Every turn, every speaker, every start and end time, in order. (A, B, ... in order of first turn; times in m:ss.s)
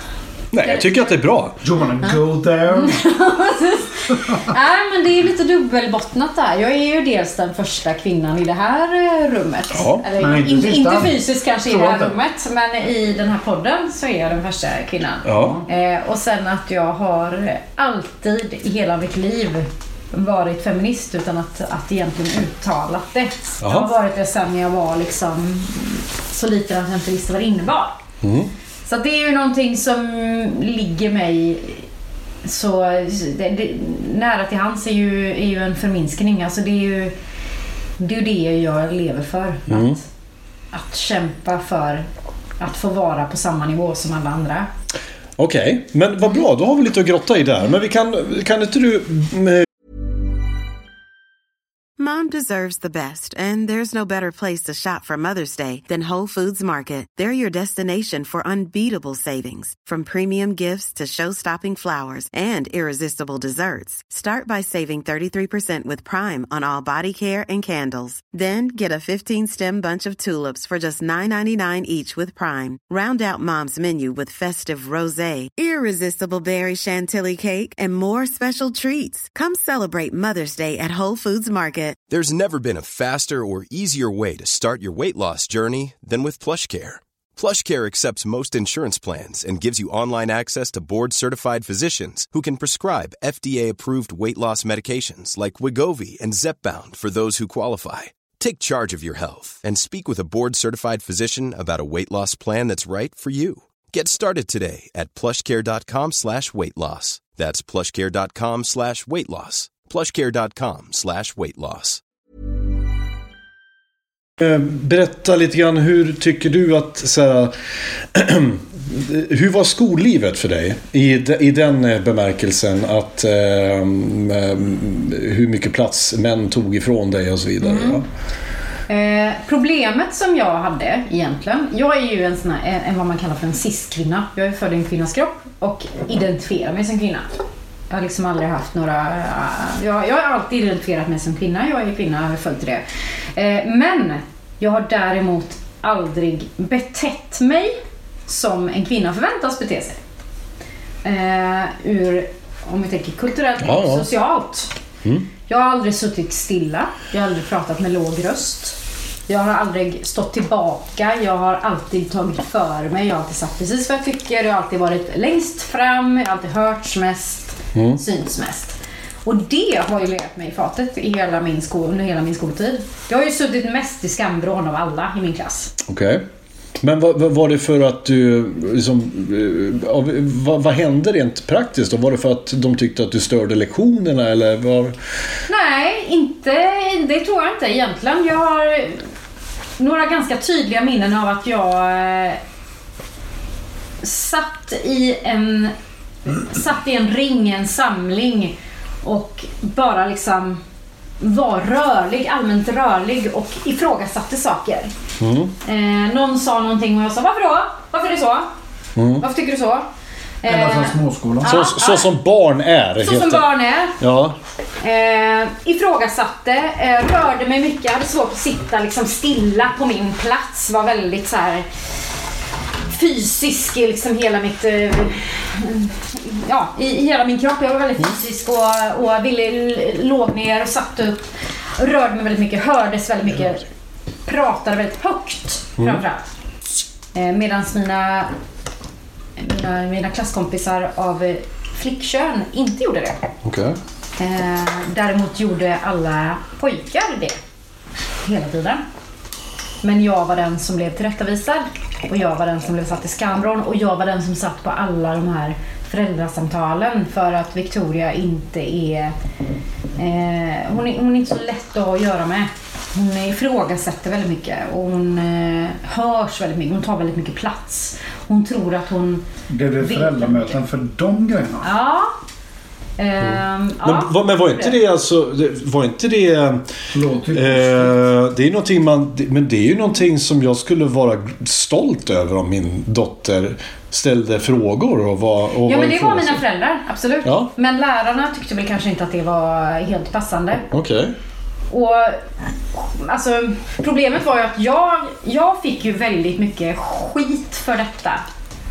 0:00.5-0:01.6 A
0:00.6-0:01.2 B
0:01.6-0:03.0 C
0:02.7-0:28.0 B
0:09.7-0:10.0 A
0:10.2-0:12.1 C
0:15.2-0:15.6 A
0:15.4-0:15.6 C
0:23.6-0:23.9 A
0:28.2-0:28.5 A
0:28.8-0:31.8 B
0:32.4-0:37.1 B
0:38.0-0:40.0 B
0:39.7-0:40.0 A
0:40.7-0:42.0 B
0:42.6-0:44.7 B
0:45.4-0:49.6 A
0:52.0-1:22.0 D
1:22.1-1:52.0 E
1:54.4-1:57.5 A
1:58.1-2:08.0 A
2:07.6-2:08.0 B
2:08.9-2:17.3 B
2:17.9-2:22.8 B
2:23.3-2:30.0 B
2:31.0-2:34.7 B
2:33.6-2:34.1 A
2:35.5-2:55.8 B
2:47.7-2:48.0 A
2:55.9-2:56.2 A
2:56.8-3:04.9 A
3:05.5-3:09.0 B
3:09.8-3:12.4 B
3:14.0-3:15.7 B
3:16.2-3:20.6 B
3:21.2-3:24.9 B
3:25.2-3:25.5 A
3:25.6-3:28.5 B
3:29.0-3:29.2 A
3:29.2-3:29.9 B
3:30.4-3:32.1 B
3:30.4-3:31.5 C
3:31.4-3:33.4 A
3:33.0-3:34.0 B
3:34.0-3:34.4 A
3:34.8-3:41.7 B
3:42.8-3:53.6 B
3:54.2-3:56.2 B
3:57.1-3:58.3 B
3:59.4-4:03.2 B
4:03.4-4:03.8 A
4:04.2-4:07.4 B
4:08.2-4:08.8 B
4:09.8-4:19.1 B
4:20.0-4:29.2 B
4:29.5-4:31.7 C
4:29.8-4:30.6 B
4:31.6-4:32.1 B
4:33.0-4:34.7 B
4:33.2-4:36.6 A
4:36.9-4:38.0 C
4:37.3-4:46.4 A
4:45.6-4:50.6 B
4:47.2-4:47.5 A
4:50.7-4:51.1 A
4:51.7-4:52.2 B
4:52.7-4:58.2 B